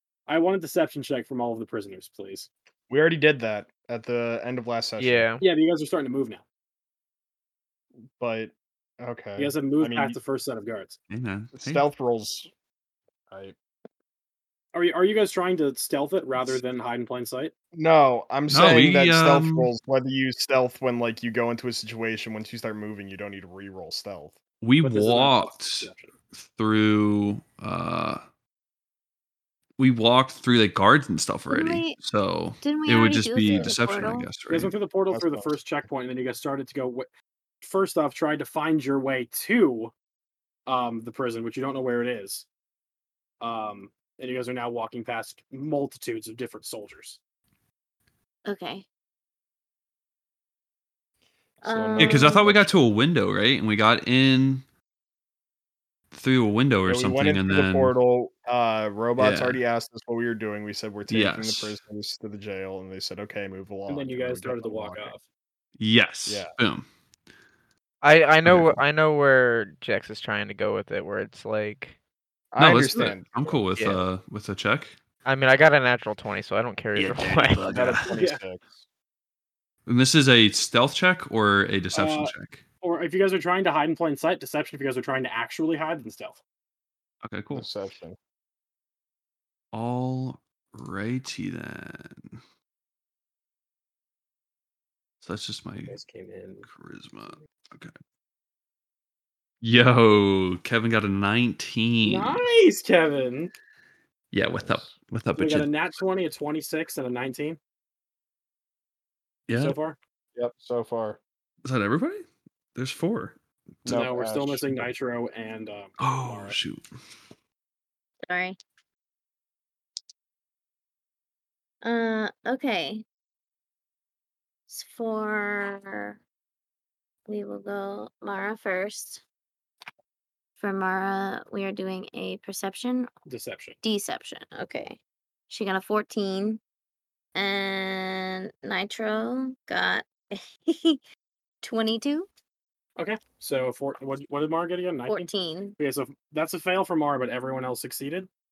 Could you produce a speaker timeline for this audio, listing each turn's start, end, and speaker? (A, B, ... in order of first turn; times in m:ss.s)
0:00.3-0:02.5 A
0:02.9-0:05.3 B
0:05.0-0:05.4 C
0:05.4-0:06.4 A
0:08.2-0:10.2 B
0:09.4-0:11.0 A
0:11.1-0:11.8 D
0:11.5-0:12.5 B
0:14.7-0:17.5 A
0:17.7-0:24.4 B
0:18.5-0:19.7 D
0:24.6-0:28.2 D
0:24.8-0:26.1 A
0:29.8-0:34.7 D
0:31.5-0:32.0 E
0:32.6-0:34.3 E
0:33.4-0:33.7 B
0:34.5-0:37.1 A
0:35.1-0:35.5 B
0:37.6-0:39.9 A
0:40.7-0:42.5 A
0:43.4-0:47.2 A
0:48.4-0:48.8 E
0:51.6-0:52.4 E
0:51.6-0:52.8 B
0:52.0-0:54.6 D
0:56.1-0:57.9 D
0:56.8-1:05.1 B
0:59.2-0:59.6 D
1:01.1-1:01.8 D
1:03.9-1:05.2 A
1:05.8-1:06.8 D
1:06.2-1:06.5 B
1:08.0-1:12.0 C
1:08.4-1:08.8 D
1:12.5-1:13.6 B
1:12.6-1:14.9 D
1:13.7-1:14.0 C
1:15.2-1:17.7 C
1:16.9-1:18.1 D
1:17.7-1:18.8 B
1:19.8-1:22.6 D
1:21.9-1:26.4 A
1:27.2-1:27.7 D
1:27.5-1:28.2 B
1:29.7-1:32.4 D
1:35.2-1:36.0 D
1:35.9-1:36.7 A
1:36.6-1:37.9 D
1:39.6-1:42.4 D
1:42.0-1:43.5 A
1:44.3-1:45.7 D
1:44.5-1:44.9 B
1:45.4-1:47.6 A
1:49.5-1:49.8 D
1:49.5-1:50.0 A
1:50.4-1:51.2 B
1:51.6-1:53.3 D
1:53.8-1:54.9 B
1:53.8-1:56.6 A
1:56.0-1:56.8 D
1:58.2-1:58.6 E
2:01.8-2:03.0 E
2:04.7-2:06.2 E
2:07.3-2:09.2 E
2:10.6-2:13.1 E
2:13.3-2:13.8 A
2:13.8-2:16.6 E
2:17.3-2:21.0 E
2:21.6-2:22.3 E
2:23.0-2:28.3 A
2:25.1-2:25.8 E